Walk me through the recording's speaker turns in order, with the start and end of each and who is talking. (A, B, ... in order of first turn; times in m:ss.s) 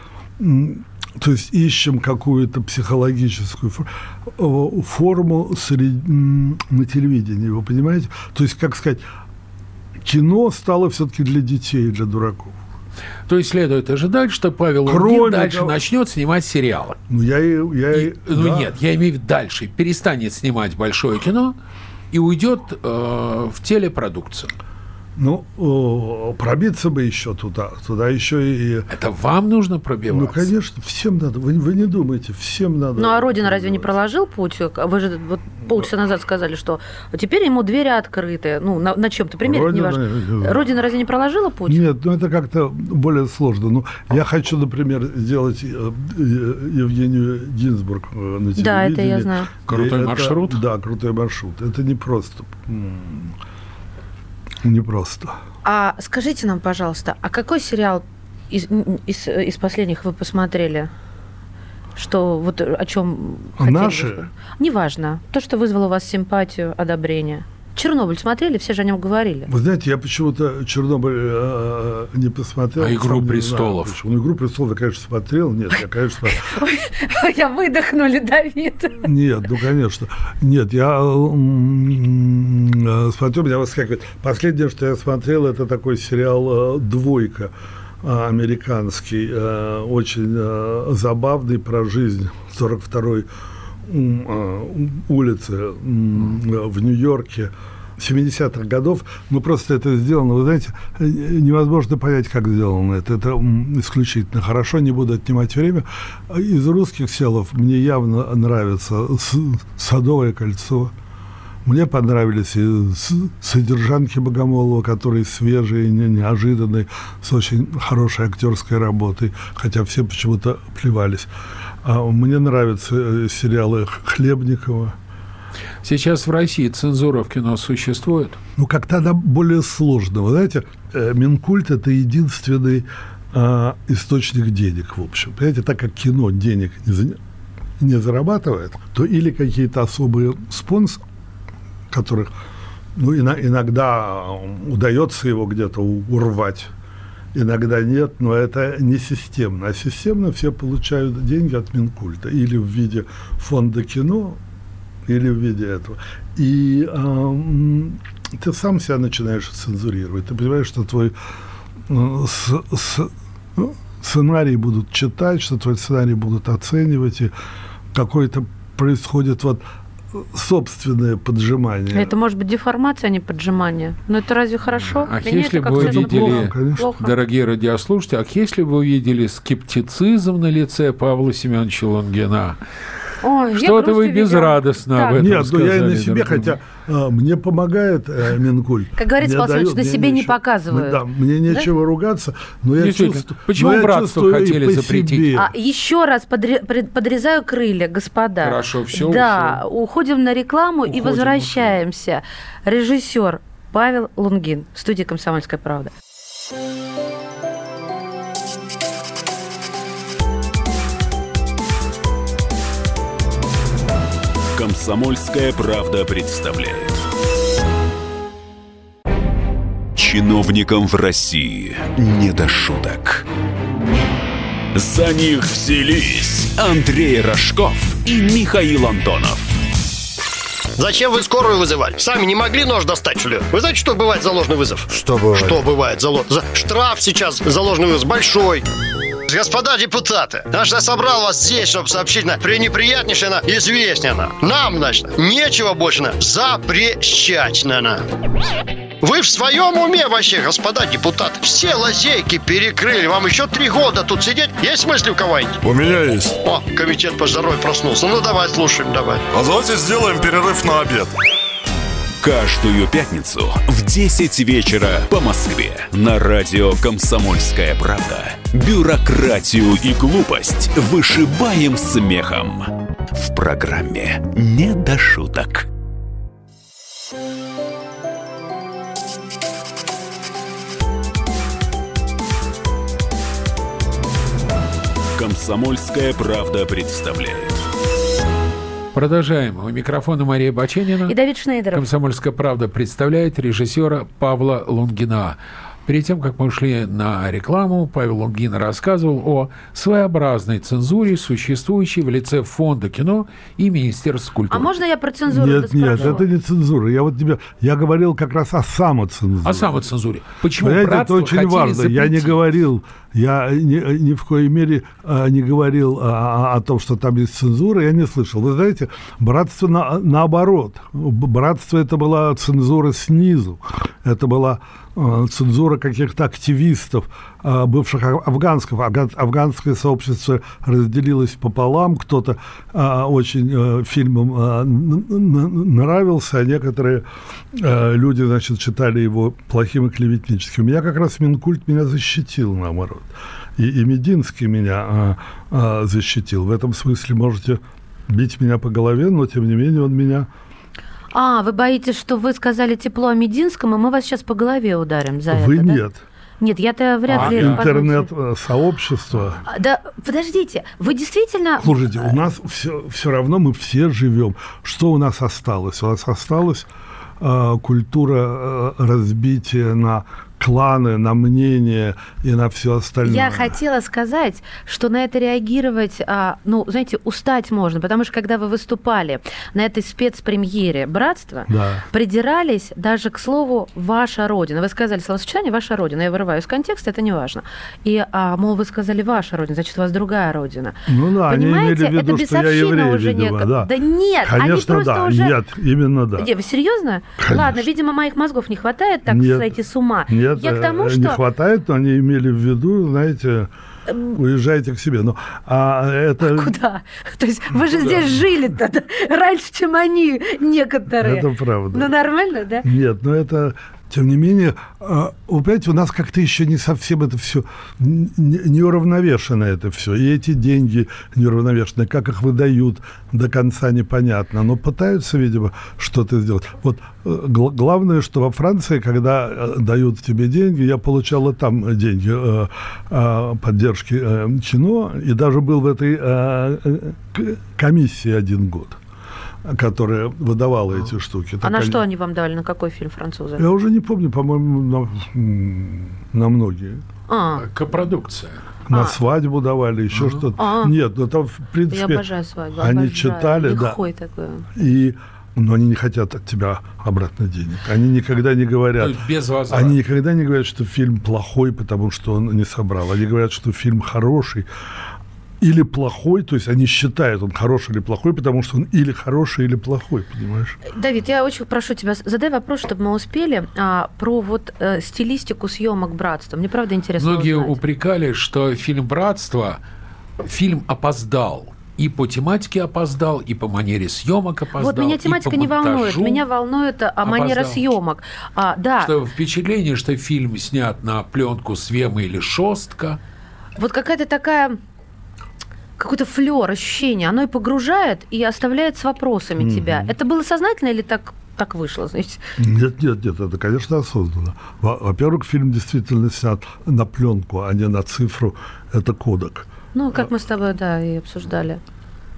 0:00.4-0:09.0 A
0:10.0-0:12.6 A
0:13.3-0:17.0 B
0:14.8-0:15.8 A
0:17.1-0:18.7 A
0:17.9-0:21.5 B
0:22.1-0:24.5 B
0:25.2-0:28.9 A
0:28.9-0:30.5 B
0:30.1-0:33.9 A
0:33.0-0:41.8 C
0:39.4-0:40.7 A
0:41.7-0:53.4 A
0:48.6-0:49.5 C
0:49.7-0:50.6 B
0:54.6-0:55.4 A
0:55.6-1:00.9 C
1:02.0-1:09.5 C
1:03.6-1:04.3 A
1:09.5-1:16.5 A
1:12.8-1:14.0 B
1:16.3-1:19.1 C
1:19.0-1:33.3 A
1:33.8-1:50.9 A
1:51.6-2:01.3 A
2:01.8-2:05.0 A
2:05.8-2:08.4 B
2:08.6-2:17.2 A
2:17.8-2:21.0 A
2:21.9-2:22.3 A
2:22.9-2:26.7 A
2:27.3-2:34.4 A
2:35.0-2:41.1 A
2:41.9-2:47.3 A
2:47.9-2:52.1 A
2:51.9-2:57.1 C
2:54.8-3:02.6 B
2:55.7-2:56.9 A
3:03.2-3:05.2 C
3:03.5-3:06.6 B
3:05.1-3:15.5 A
3:09.0-3:11.7 C
3:12.8-3:15.3 B
3:15.3-3:25.9 C
3:18.4-3:19.6 B
3:20.9-3:21.8 B
3:34.5-3:37.0 D
3:39.9-3:43.2 D
3:44.7-3:49.6 D
3:50.8-3:58.6 E
3:55.0-3:55.5 F
3:59.3-4:08.0 E
4:09.0-4:15.6 E
4:15.6-4:16.4 F
4:16.4-4:19.2 E
4:19.3-4:21.1 F
4:22.2-4:35.7 D
4:45.1-4:47.6 D
4:48.9-4:51.1 B
4:51.1-4:51.9 C
4:51.7-5:04.7 B
5:04.5-5:06.2 C
5:05.3-5:09.8 A
5:09.4-5:12.4 B
5:10.6-5:50.3 A
5:51.1-5:55.8 C
5:55.3-5:56.0 A
5:56.4-5:58.1 C
5:57.1-5:57.7 B
5:57.1-5:59.4 A
5:59.5-6:02.2 C
6:01.6-6:06.7 A
6:07.2-6:13.6 A
6:13.0-6:35.4 C
6:21.5-6:21.8 A
6:30.9-6:33.7 A
6:34.2-6:36.3 A
6:36.2-6:41.2 C
6:37.2-6:37.6 A
6:39.1-6:39.6 A
6:40.1-6:43.5 A
6:43.9-6:44.2 C
6:44.1-6:46.5 A
6:46.2-6:52.7 C
6:50.9-6:51.9 A
6:52.6-7:18.8 A
7:19.4-7:21.8 A
7:21.4-7:23.4 C
7:23.4-7:26.8 A
7:27.1-7:27.4 C
7:27.4-7:28.4 B
7:28.7-7:32.0 A
7:28.7-7:29.0 C
7:29.9-7:30.2 B
7:30.4-7:30.7 C
7:31.7-7:34.4 C
7:32.6-7:33.8 A
7:34.5-7:44.5 A
7:38.8-7:39.8 B
7:45.4-7:50.6 A
7:50.7-7:57.6 C
7:57.0-7:59.6 B
8:00.2-8:06.2 B
8:04.6-8:08.9 C
8:07.0-8:07.7 B
8:08.8-8:13.0 B
8:13.6-8:14.6 C
8:15.8-8:22.2 C
8:19.4-8:19.9 A
8:22.4-8:29.5 A
8:29.7-8:31.6 C